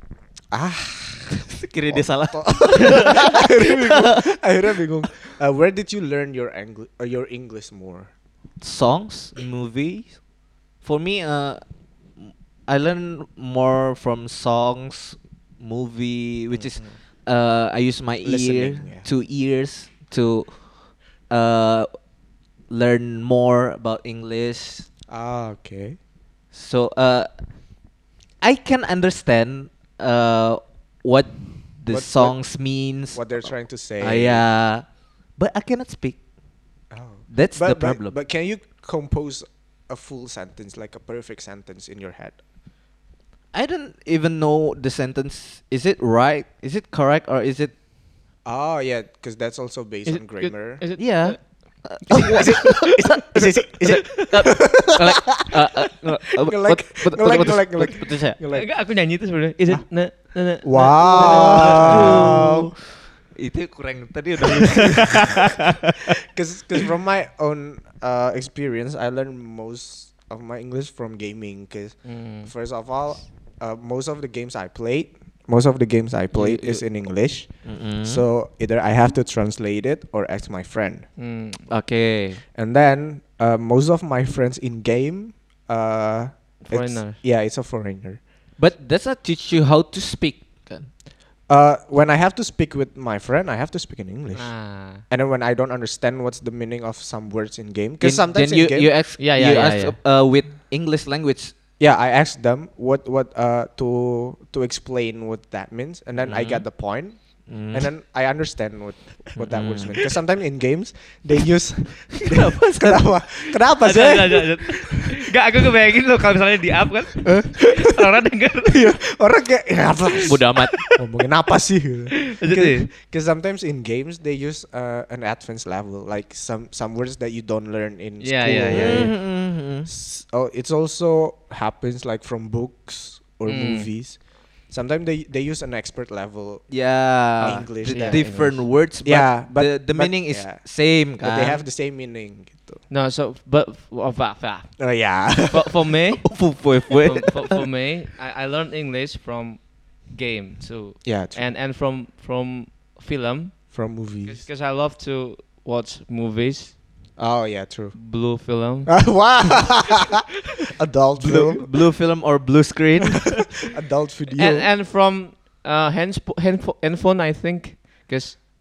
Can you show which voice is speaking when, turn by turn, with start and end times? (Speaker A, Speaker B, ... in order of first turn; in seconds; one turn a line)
Speaker A: 0.5-8.1
Speaker B: 1.3-4.2
Speaker B: 8.6-10.2
Speaker B: 10.8-11.6
Speaker B: 12.2-20.7
Speaker A: 16.5-16.9
Speaker A: 18.2-19.1
Speaker B: 21.3-21.9
Speaker B: 22.7-24.9
Speaker A: 25.1-26.0
Speaker B: 26.5-27.3
Speaker B: 28.4-34.8
Speaker A: 31.9-32.4
Speaker A: 33.1-34.4
Speaker B: 35.4-36.2
Speaker A: 36.9-42.4
Speaker B: 37.3-38.1
Speaker B: 43.5-47.7
Speaker A: 48.4-50.8
Speaker C: 50.0-52.9
Speaker B: 51.0-58.4
Speaker A: 52.1-55.1
Speaker C: 53.9-54.6
Speaker A: 56.4-58.8
Speaker C: 58.5-62.4
Speaker A: 60.6-62.7
Speaker B: 61.0-62.8
Speaker B: 63.3-65.6
Speaker C: 64.9-65.4
Speaker A: 66.3-81.1
Speaker C: 72.0-72.5
Speaker C: 76.3-76.8
Speaker B: 77.6-78.2
Speaker C: 81.2-81.7
Speaker B: 81.7-82.4
Speaker A: 82.5-88.2
Speaker C: 86.6-87.2
Speaker B: 88.6-90.9
Speaker A: 91.5-98.9
Speaker C: 94.3-95.0
Speaker B: 98.0-101.5
Speaker C: 99.2-100.0
Speaker A: 101.8-115.2
Speaker B: 106.2-106.7
Speaker B: 107.5-107.9
Speaker B: 109.4-110.0
Speaker B: 112.2-113.0
Speaker C: 113.8-118.9
Speaker A: 117.2-117.7
Speaker A: 118.6-142.8
Speaker B: 120.2-120.8
Speaker C: 120.3-121.0
Speaker C: 122.2-122.9
Speaker C: 128.2-129.1
Speaker B: 128.5-129.9
Speaker C: 133.4-133.9
Speaker B: 136.7-141.6
Speaker C: 137.9-138.6
Speaker C: 142.9-156.8
Speaker A: 144.8-145.8
Speaker B: 146.2-147.7
Speaker A: 151.0-151.5
Speaker A: 153.7-154.4
Speaker A: 157.2-157.9
Speaker C: 157.9-159.1
Speaker A: 158.9-160.2
Speaker A: 160.8-161.7
Speaker B: 161.2-163.6
Speaker A: 163.7-164.7
Speaker C: 164.3-168.5